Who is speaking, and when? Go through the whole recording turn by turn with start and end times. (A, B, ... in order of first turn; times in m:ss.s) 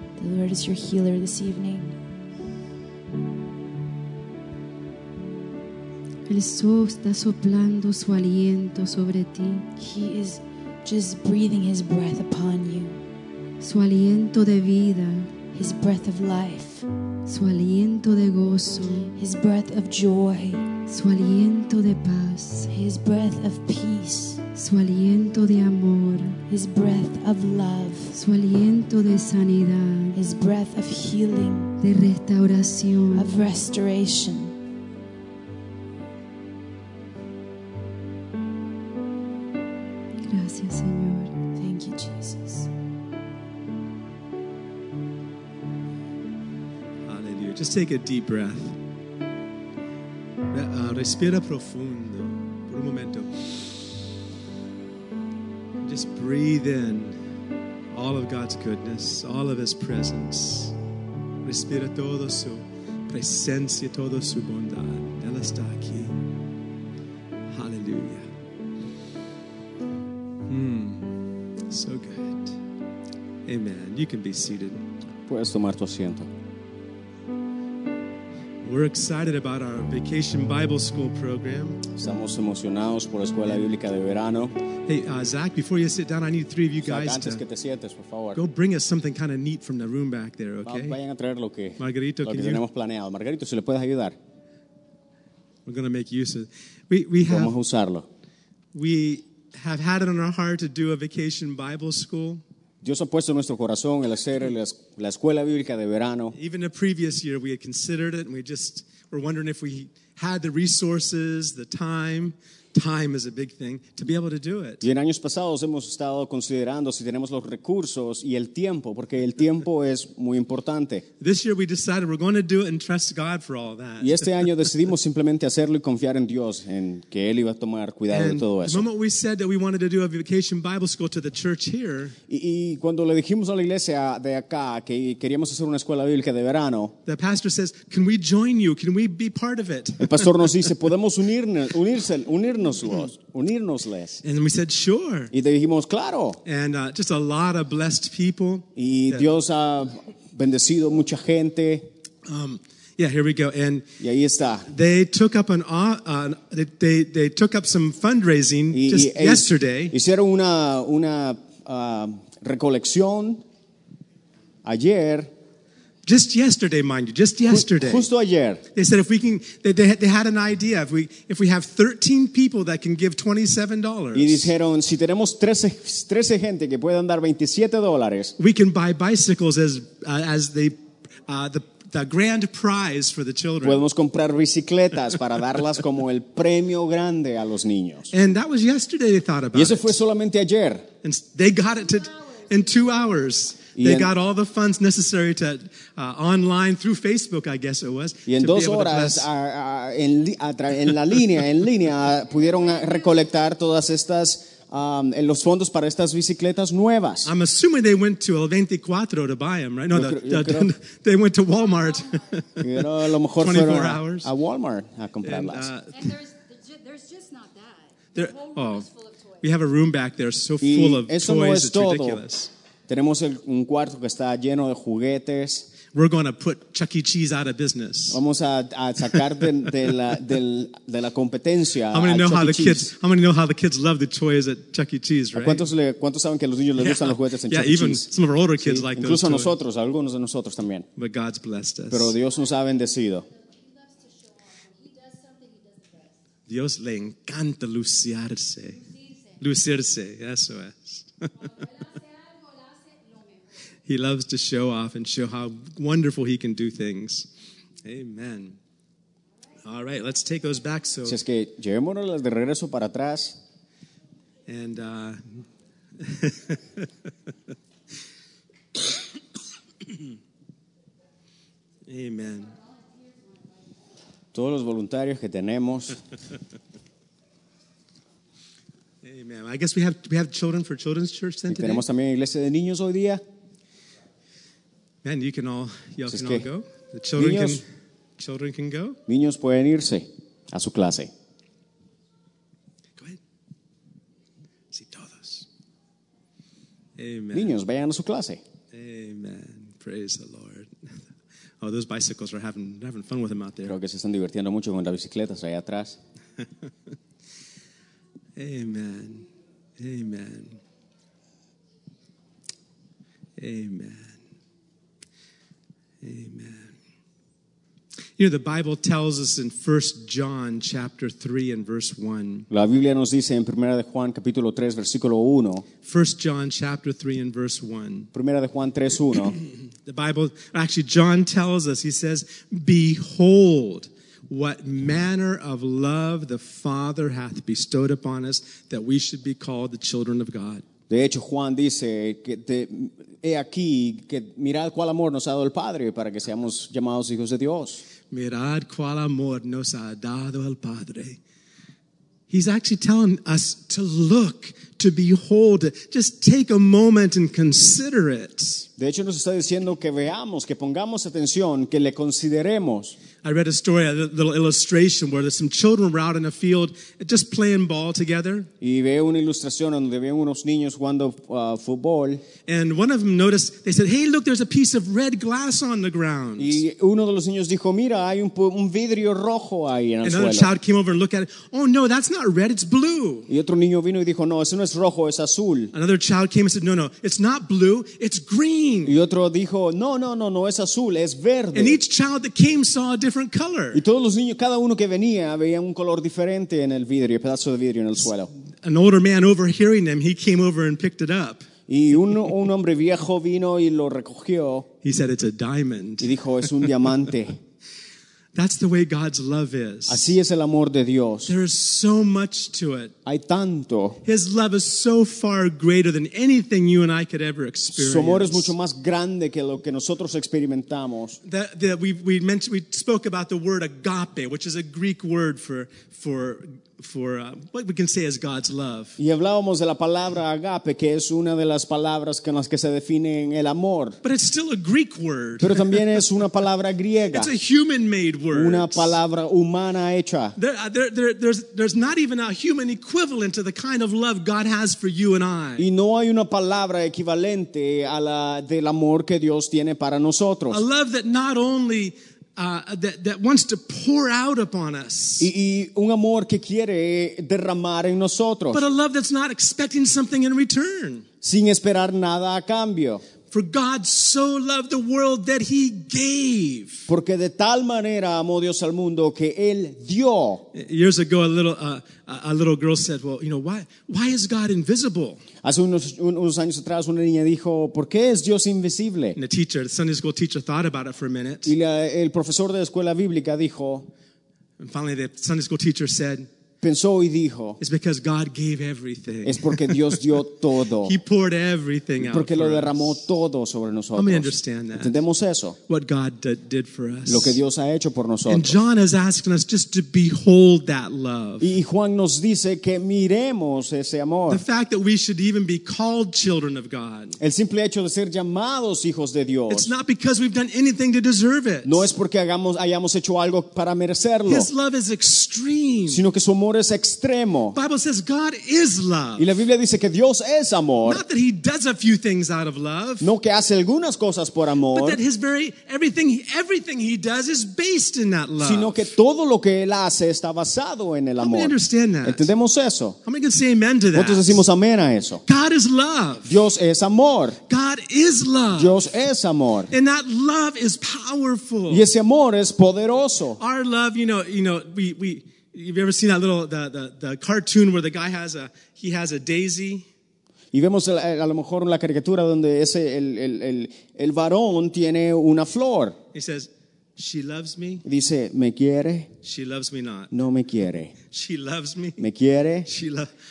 0:00.2-0:02.0 A
0:06.3-0:09.7 B
0:09.8-0:13.0 A
0:13.6-0:15.3 B
0:15.5-0:16.8 A
0:17.3-0:19.1 B
0:19.1-0:20.7 A
0:20.9-0:22.7 B
0:22.7-0:24.4 A
0:24.5-0:26.4 B
0:26.5-0:28.2 A
0:28.1-0:30.2 B
0:30.1-0:31.7 A
0:31.8-0:33.5 B
0:33.1-0:34.5 A
0:40.2-0:41.3 B
0:41.5-0:42.7 A
0:47.0-0:48.8 C
0:50.5-0:53.4 C
0:55.8-0:57.2 C
0:57.9-1:00.7 C
1:01.4-1:06.2 C
1:07.5-1:08.3 C
1:10.5-1:12.6 C
1:13.4-1:14.8 C
1:15.3-1:16.3 D
1:18.6-1:21.8 C
1:22.0-1:24.5 D
1:24.8-1:27.4 C
1:26.8-1:28.4 D
1:28.3-1:31.0 C
1:30.6-1:34.2 D
1:31.8-1:32.6 C
1:35.6-1:37.5 C
1:37.3-1:38.1 D
1:38.7-1:42.4 C
1:42.8-1:46.4 D
1:46.3-1:54.8 C
1:54.8-2:01.0 D
2:01.2-2:04.3 C
2:04.0-2:08.9 D
2:08.1-2:12.1 C
2:12.3-2:16.9 D
2:17.0-2:20.3 C
2:20.0-2:24.2 D
2:24.2-2:25.3 C
2:25.3-2:26.4 D
2:26.4-2:29.3 C
2:28.8-2:31.8 D
2:32.2-2:33.8 C
2:34.0-2:34.7 D
2:34.7-2:39.9 C
2:38.7-2:43.4 D
2:44.6-2:45.3 D
2:46.0-2:48.1 C
2:47.5-2:48.6 D
2:48.7-2:54.5 C
2:54.1-2:58.3 D
2:58.4-3:03.8 C
3:03.6-3:08.1 D
3:08.1-3:10.0 C
3:09.5-3:10.9 D
3:11.0-3:19.3 C
3:13.7-3:14.1 D
3:18.2-3:27.3 D
3:22.3-3:23.2 E
3:27.2-3:34.3 C
3:29.9-3:30.7 D
3:31.6-3:32.2 E
3:32.6-3:35.7 D
3:35.2-3:36.1 C
3:35.9-3:39.5 E
3:38.1-3:38.9 C
3:39.4-3:42.5 C
3:40.6-3:42.2 D
3:42.9-3:45.7 D
3:45.9-3:48.2 C
3:48.1-3:52.9 D
3:51.9-3:55.6 C
3:55.3-4:00.8 D
3:56.8-3:59.5 C
4:01.0-4:02.1 C
4:01.9-4:03.2 D
4:03.3-4:06.2 E
4:06.5-4:08.8 C
4:08.8-4:09.3 E
4:09.4-4:11.5 C
4:11.4-4:13.5 E
4:13.8-4:17.3 C
4:17.8-4:18.6 C
4:19.6-4:21.2 C
4:21.0-4:23.4 D
4:24.5-4:25.4 C
4:26.0-4:26.9 C
4:31.9-4:32.5 C
4:34.3-4:36.0 D
4:39.0-4:41.8 C
4:41.5-4:43.2 D
4:45.0-4:47.6 C
4:46.1-4:46.4 D
4:47.2-4:47.6 D
4:48.2-4:49.0 C
4:49.1-4:51.1 D
4:54.7-4:55.5 C
4:57.0-4:57.5 C
4:57.3-4:58.4 D
4:58.7-5:01.0 C
5:01.6-5:03.8 C
5:03.6-5:06.0 D
5:08.4-5:09.3 C
5:09.8-5:10.6 C
5:13.4-5:14.2 C
5:16.0-5:16.7 C
5:18.2-5:22.5 C
5:22.5-5:25.6 D
5:25.8-5:28.1 C
5:28.1-5:29.4 D
5:29.8-5:40.6 C
5:40.9-5:47.8 D
5:48.1-5:51.2 C
5:52.3-5:58.7 C
5:58.8-6:03.0 D
6:03.2-6:08.5 C
6:08.6-6:12.2 D
6:12.5-6:16.6 C
6:16.4-6:20.5 D
6:20.0-6:23.3 C
6:23.3-6:25.7 D
6:25.7-6:29.0 C
6:28.8-6:31.8 D
6:31.5-6:33.8 C
6:33.7-6:38.3 D
6:38.6-6:41.5 C
6:41.7-6:44.7 D
6:44.8-6:46.1 C
6:46.0-6:47.4 D
6:48.3-6:50.2 C
6:49.9-6:51.3 D
6:51.3-6:52.9 C
6:53.0-6:54.0 D
6:54.0-6:58.5 C
6:57.7-7:01.2 D
7:01.2-7:09.0 C
7:09.0-7:14.0 D
7:14.0-7:15.8 C
7:15.4-7:17.3 D
7:17.1-7:19.0 C
7:18.3-7:20.4 D
7:20.4-7:25.6 C
7:25.6-7:30.6 D
7:30.5-7:35.3 C
7:35.2-7:38.6 D
7:38.5-7:41.0 C
7:41.2-7:43.0 D
7:43.3-7:46.9 C
7:46.9-7:50.4 D
7:50.5-7:55.2 C
7:55.4-7:59.2 D
7:59.2-8:01.5 C
8:01.4-8:03.9 D
8:04.6-8:06.3 C
8:06.6-8:07.6 D
8:07.6-8:10.0 C
8:09.2-8:11.0 D
8:10.8-8:13.0 C
8:12.0-8:15.6 D
8:14.0-8:15.0 C
8:15.7-8:17.4 C
8:17.0-8:18.6 D
8:18.3-8:21.5 C
8:21.4-8:24.4 D
8:24.3-8:27.2 C
8:27.2-8:29.7 D
8:29.5-8:31.9 C
8:31.6-8:34.5 D
8:34.3-8:36.0 C
8:35.9-8:37.6 D
8:37.5-8:39.3 C
8:39.2-8:41.0 D
8:40.8-8:43.1 C
8:43.0-8:45.0 D
8:44.7-8:48.9 C
8:48.4-8:53.0 D
8:51.2-8:52.3 C
8:53.0-8:54.4 C
8:53.9-8:55.2 D
8:55.3-8:56.3 C
8:56.2-8:57.4 D
8:57.5-8:58.8 C
8:58.6-8:59.7 D
8:59.7-9:01.9 C
9:01.7-9:03.4 D
9:03.4-9:09.8 C
9:10.5-9:16.0 D
9:16.1-9:17.8 C
9:17.8-9:19.1 D
9:19.2-9:20.1 C
9:20.1-9:20.9 D
9:21.1-9:22.0 C
9:22.0-9:22.7 D
9:22.7-9:23.1 C